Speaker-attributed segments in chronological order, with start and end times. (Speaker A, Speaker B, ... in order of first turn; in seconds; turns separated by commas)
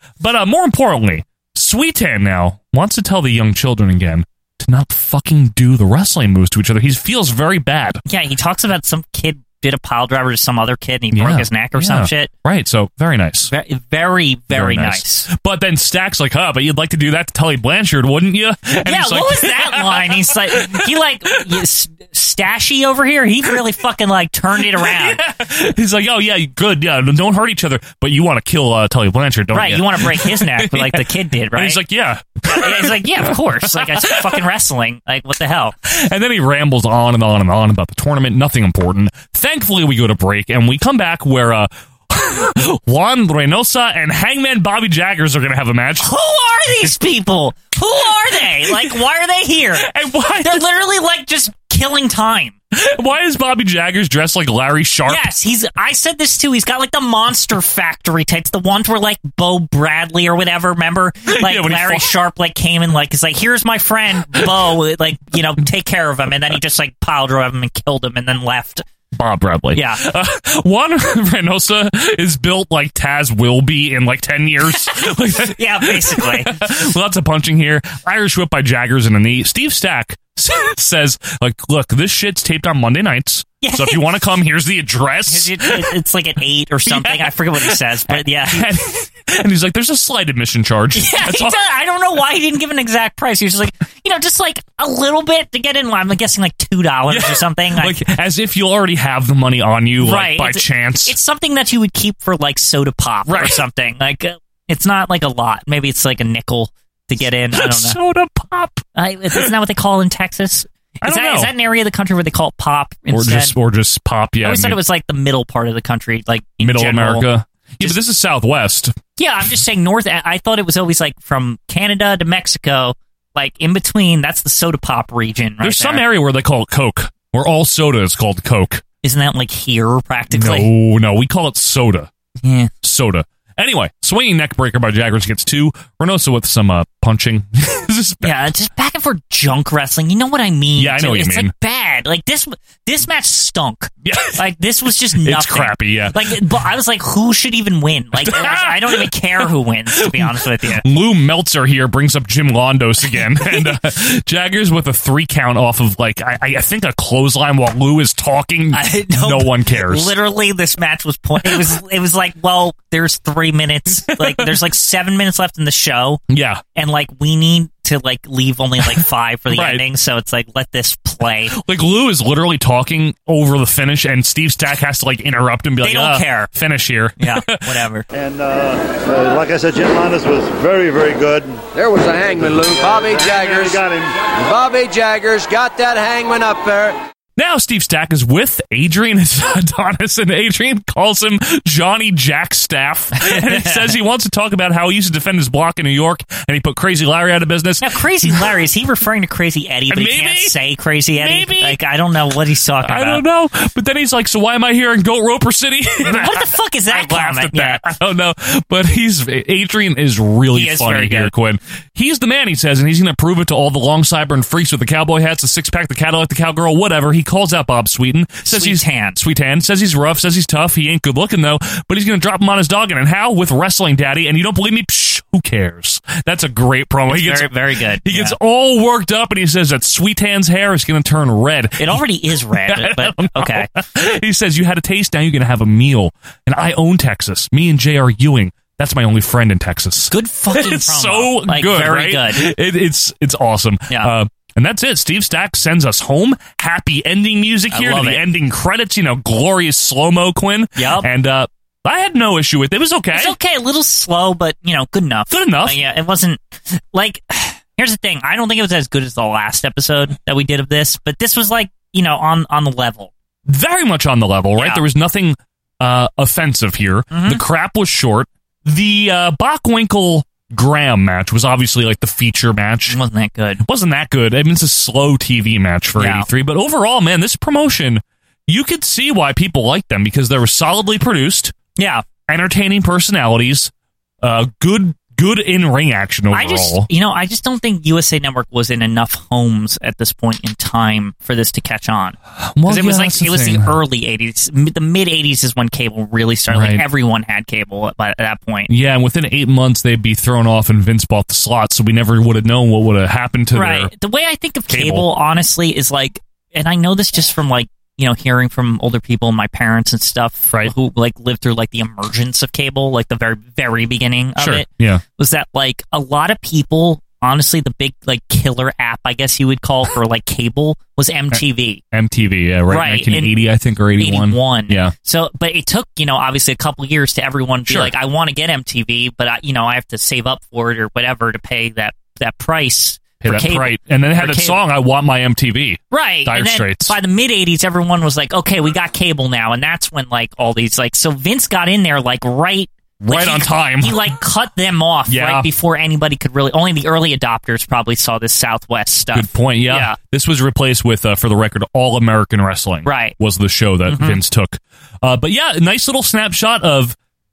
Speaker A: 0.2-8.0, Speaker B: 8.1-12.3, Speaker A: 11.1-13.5, Speaker B: 13.5-15.3, Speaker A: 14.5-21.6, Speaker B: 18.9-25.2, Speaker A: 24.6-34.4, Speaker B: 29.5-31.8, Speaker B: 32.5-35.7, Speaker A: 35.9-46.1, Speaker B: 46.0-49.9, Speaker A: 48.3-49.0, Speaker A: 49.8-50.6, Speaker B: 50.4-52.6, Speaker A: 52.7-55.3, Speaker B: 55.1-68.8, Speaker A: 61.3-62.1, Speaker A: 69.1-85.9, Speaker B: 69.7-70.0, Speaker B: 74.9-76.6, Speaker B: 83.6-84.1, Speaker B: 85.3-88.7, Speaker A: 86.9-91.6, Speaker B: 91.0-98.0, Speaker A: 97.1-101.2, Speaker B: 100.0-108.0, Speaker A: 103.3-103.6, Speaker A: 107.2-109.5, Speaker B: 109.0-113.6, Speaker A: 111.0-111.5, Speaker A: 113.1-114.8, Speaker B: 114.4-117.3, Speaker A: 116.6-118.9, Speaker B: 119.2-126.1, Speaker A: 125.6-128.8, Speaker B: 129.0-130.7, Speaker A: 130.3-132.1, Speaker B: 132.4-132.7, Speaker A: 132.8-138.4, Speaker B: 138.2-150.8, Speaker A: 140.8-141.5, Speaker A: 144.0-144.4, Speaker A: 145.2-146.4, Speaker A: 148.2-149.5, Speaker A: 150.0-160.1, Speaker B: 153.0-153.8, Speaker B: 158.7-166.2, Speaker A: 164.0-164.6, Speaker A: 166.3-166.6, Speaker B: 166.8-171.6, Speaker A: 168.8-169.8, Speaker A: 171.5-177.7, Speaker B: 175.8-176.5, Speaker B: 177.2-178.1, Speaker C: 178.1-181.6, Speaker D: 181.8-187.0, Speaker C: 182.4-184.2, Speaker A: 187.4-198.6, Speaker B: 193.2-193.8, Speaker B: 197.8-203.2, Speaker A: 199.9-200.6, Speaker A: 201.2-201.8, Speaker A: 202.8-253.4, Speaker B: 206.0-208.0, Speaker B: 210.5-211.3, Speaker B: 218.4-219.2, Speaker B: 227.1-228.4, Speaker B: 231.8-233.7, Speaker B: 240.1-242.5, Speaker B: 247.7-248.2, Speaker B: 250.8-251.1, Speaker B: 253.1-263.1, Speaker A: 255.3-255.8, Speaker A: 263.5-273.0, Speaker B: 264.6-264.8, Speaker B: 267.1-267.4, Speaker B: 272.9-273.6, Speaker A: 273.6-281.5, Speaker B: 276.0-276.3, Speaker B: 281.8-282.1, Speaker A: 282.3-286.9, Speaker B: 286.3-298.7, Speaker A: 292.4-293.7, Speaker A: 296.5-296.8, Speaker A: 298.7-303.9, Speaker B: 303.5-321.8, Speaker A: 304.7-305.1, Speaker A: 314.4-315.0, Speaker A: 321.3-324.9, Speaker B: 322.7-323.4, Speaker B: 324.0-334.6, Speaker A: 327.7-327.9, Speaker A: 333.2-337.0, Speaker B: 335.9-350.0, Speaker A: 343.0-344.1, Speaker A: 345.1-345.5, Speaker A: 349.1-357.0, Speaker B: 352.9-353.1, Speaker B: 353.9-354.2